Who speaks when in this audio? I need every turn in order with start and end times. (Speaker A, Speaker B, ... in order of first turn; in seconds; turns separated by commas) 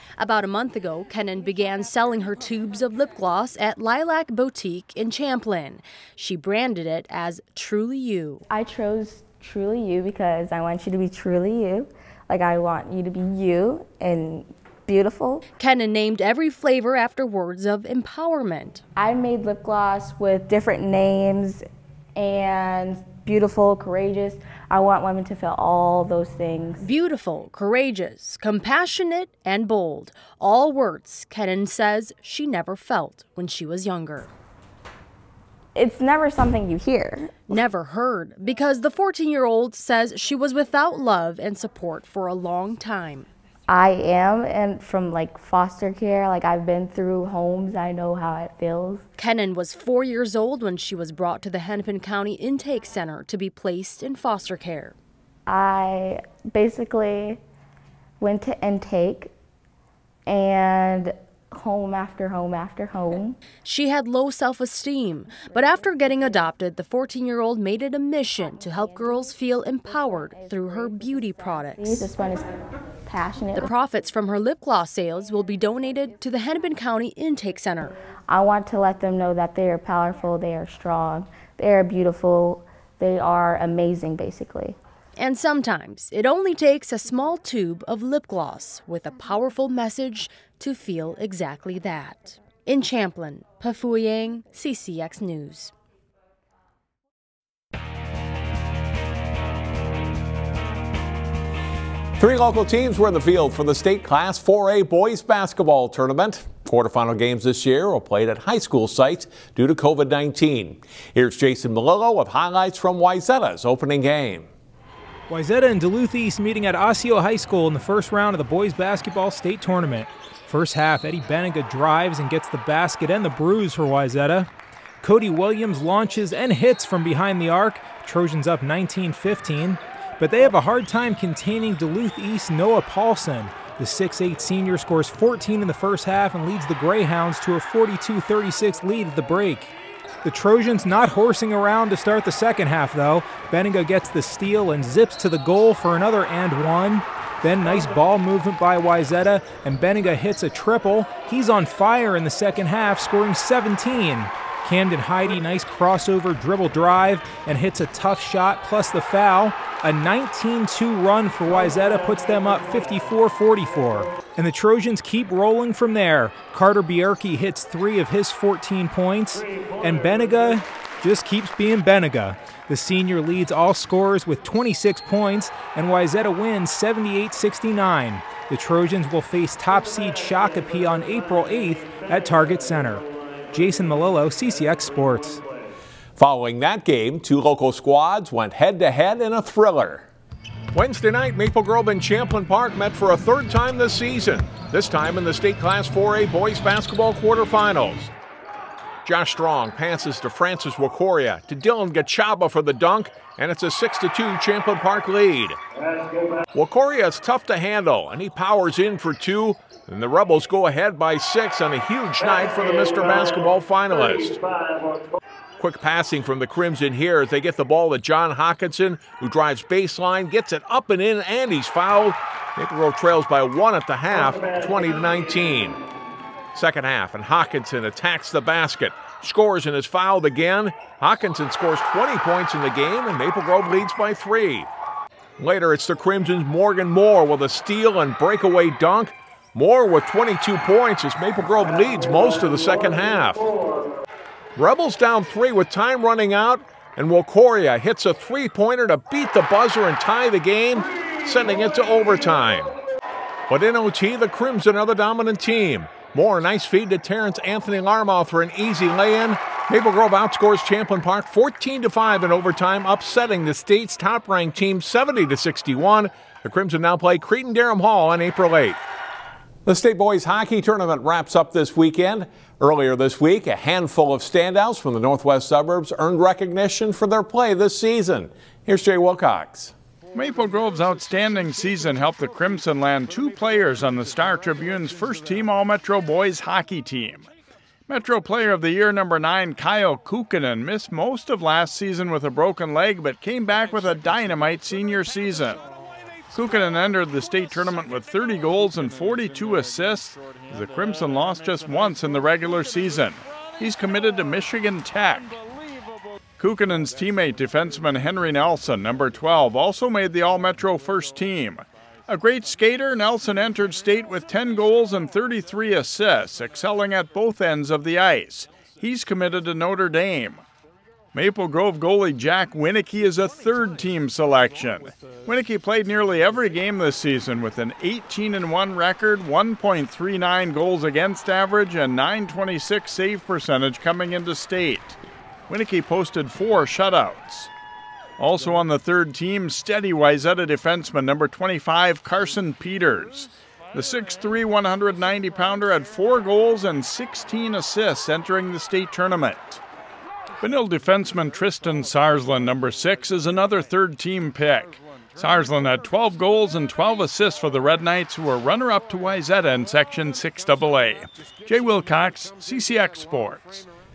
Speaker A: 0.2-8.4, Speaker B: 8.5-15.4, Speaker A: 15.6-18.8, Speaker B: 19.0-21.6, Speaker B: 22.2-26.8, Speaker A: 26.8-34.3, Speaker B: 35.8-37.3, Speaker A: 37.5-43.3, Speaker B: 43.7-49.0, Speaker A: 49.2-54.9, Speaker B: 55.5-57.4, Speaker B: 58.2-59.3, Speaker B: 60.3-63.4, Speaker A: 63.6-72.1, Speaker B: 70.1-72.5, Speaker B: 73.1-73.7, Speaker A: 73.5-78.0, Speaker B: 78.3-84.8, Speaker A: 85.2-95.7, Speaker C: 102.2-114.5, Speaker D: 115.3-124.5, Speaker D: 125.0-139.7, Speaker D: 140.2-185.4, Speaker C: 186.2-190.1, Speaker C: 190.7-198.1, Speaker C: 199.1-205.6, Speaker C: 206.5-214.4, Speaker C: 215.6-225.8, Speaker C: 226.6-234.7, Speaker C: 235.4-243.5, Speaker C: 244.6-252.7, Speaker C: 253.5-268.8, Speaker C: 269.7-279.7, Speaker E: 280.1-287.3, Speaker E: 287.9-295.6, Speaker E: 296.3-305.4, Speaker E: 306.4-320.4, Speaker E: 321.1-335.0, Speaker E: 335.5-337.5, Speaker E: 338.2-349.6, Speaker E: 350.4-363.6